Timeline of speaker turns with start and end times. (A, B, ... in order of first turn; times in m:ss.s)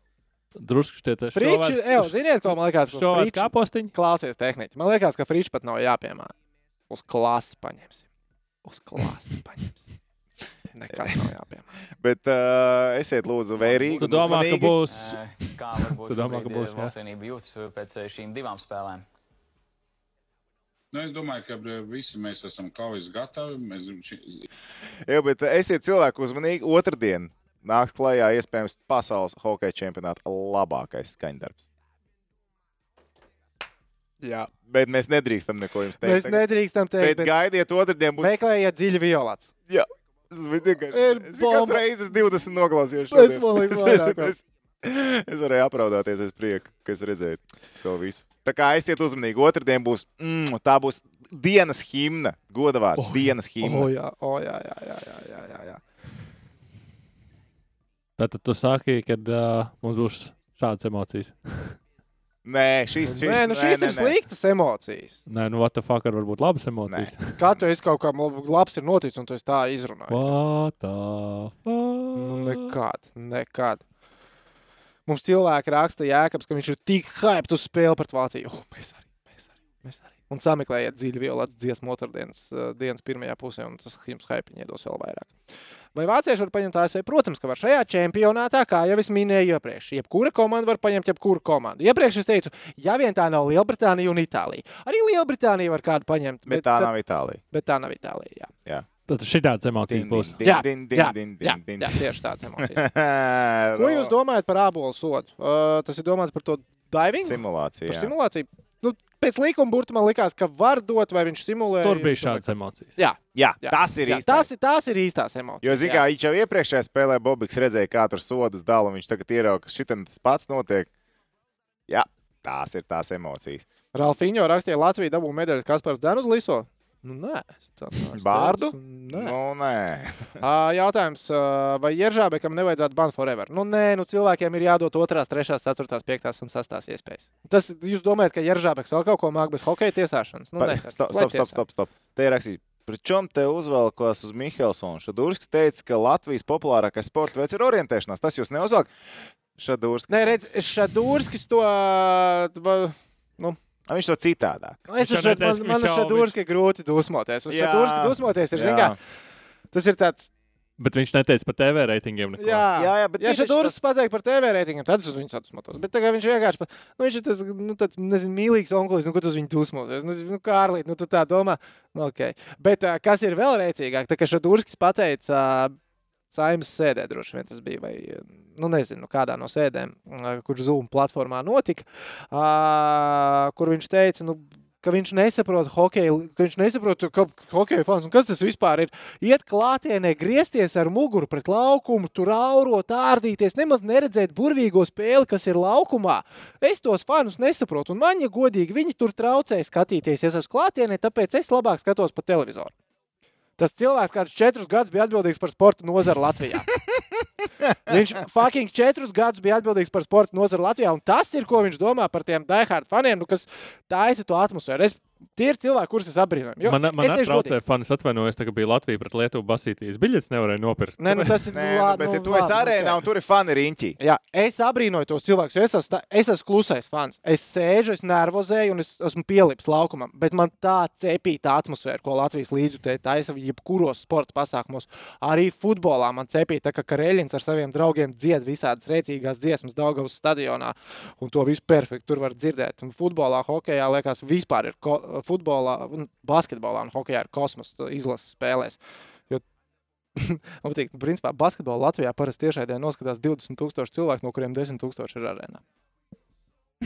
0:00.6-0:03.9 A
0:01.3-0:06.3 B
0:06.9-0:08.0 B
0:08.6-0:09.8 B
0:10.7-0:11.7 B
0:12.0-0:14.8 C
0:13.9-0:15.2 A
0:14.8-0:19.0 D
0:15.8-0:16.9 A
0:20.9-0:24.4 E
0:25.0-0:31.6 C
0:34.2-0:34.5 B
0:34.7-0:38.4 C
0:36.0-0:37.3 B
0:38.2-0:39.5 B
0:39.7-0:53.9 C
0:40.9-0:41.8 B
0:43.1-0:44.4 B
0:53.0-0:55.8 B
0:58.2-1:01.7 A
1:02.4-1:04.2 C
1:03.0-1:05.2 B
1:05.3-1:07.3 A
1:06.8-1:07.1 C
1:07.4-1:10.4 B
1:10.1-1:12.7 A
1:12.2-1:13.8 B
1:15.1-1:25.3 B
1:25.9-1:36.9 B
1:36.4-1:37.4 C
1:37.5-1:38.5 B
1:39.1-1:40.4 A
1:39.8-1:42.0 C
1:40.4-1:42.9 B
1:42.6-1:44.1 C
1:43.7-1:52.4 B
1:47.2-1:48.1 C
1:51.8-1:52.9 A
1:53.0-1:56.0 B
1:53.3-1:54.5 C
1:55.6-2:00.9 C
2:01.9-2:03.7 C
2:03.9-2:09.3 B
2:08.1-2:10.3 C
2:10.4-2:21.6 B
2:20.6-2:28.9 C
2:29.5-2:30.5 C
2:30.1-2:33.6 B
2:33.9-2:34.8 C
2:34.9-2:39.0 B
2:35.0-2:36.3 A
2:37.5-2:39.0 C
2:39.7-2:40.3 B
2:40.8-2:42.6 A
2:42.4-2:55.7 B
2:42.7-2:43.8 C
2:56.3-3:22.7 B
3:23.6-3:26.7 B
3:27.8-3:37.6 B
3:36.6-3:41.4 A
3:41.0-3:43.0 B
3:41.5-3:44.0 C
3:44.0-4:08.8 B
4:10.2-4:15.6 B